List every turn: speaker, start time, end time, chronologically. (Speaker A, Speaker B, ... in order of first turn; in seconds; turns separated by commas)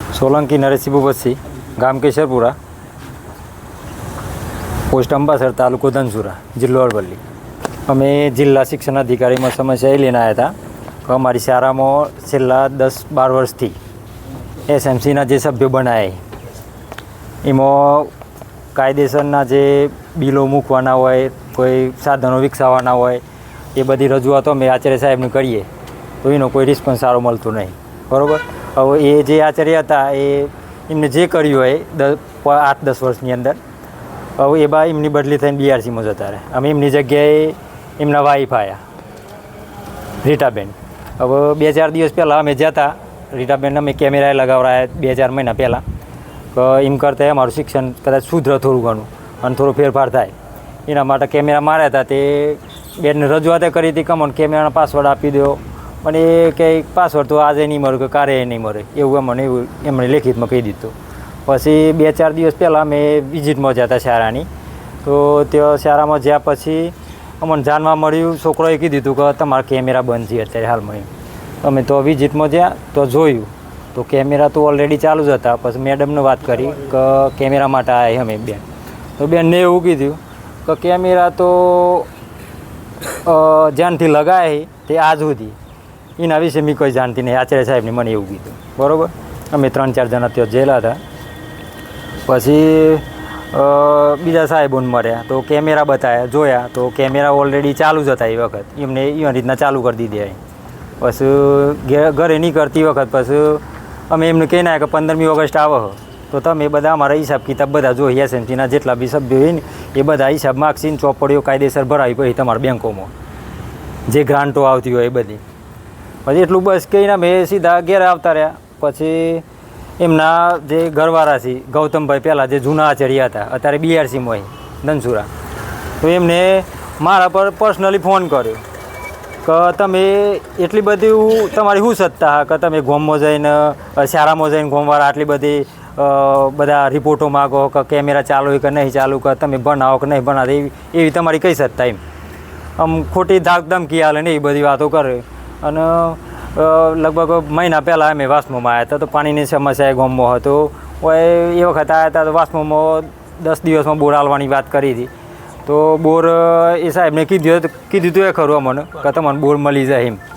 Speaker A: 0.1-2.5, Speaker A: 4.9-7.2, Speaker A: 7.9-10.5, Speaker A: 11.0-13.8, Speaker A: 14.7-16.2, Speaker A: 17.4-18.1, Speaker A: 18.7-23.2, Speaker A: 23.7-25.7, Speaker A: 26.2-33.6, Speaker A: 34.4-38.8, Speaker A: 40.2-45.8, Speaker A: 46.5-50.3, Speaker A: 50.9-60.9, Speaker A: 61.5-64.5, Speaker A: 65.0-71.1, Speaker A: 71.6-78.6, Speaker A: 79.2-82.1, Speaker A: 83.2-85.5, Speaker A: 86.2-91.0, Speaker A: 92.2-100.4, Speaker A: 101.0-113.1, Speaker A: 114.1-115.4, Speaker A: 116.2-119.4, Speaker A: 120.0-125.3, Speaker A: 126.0-128.6, Speaker A: 129.4-142.0, Speaker A: 142.8-155.1, Speaker A: 155.7-160.2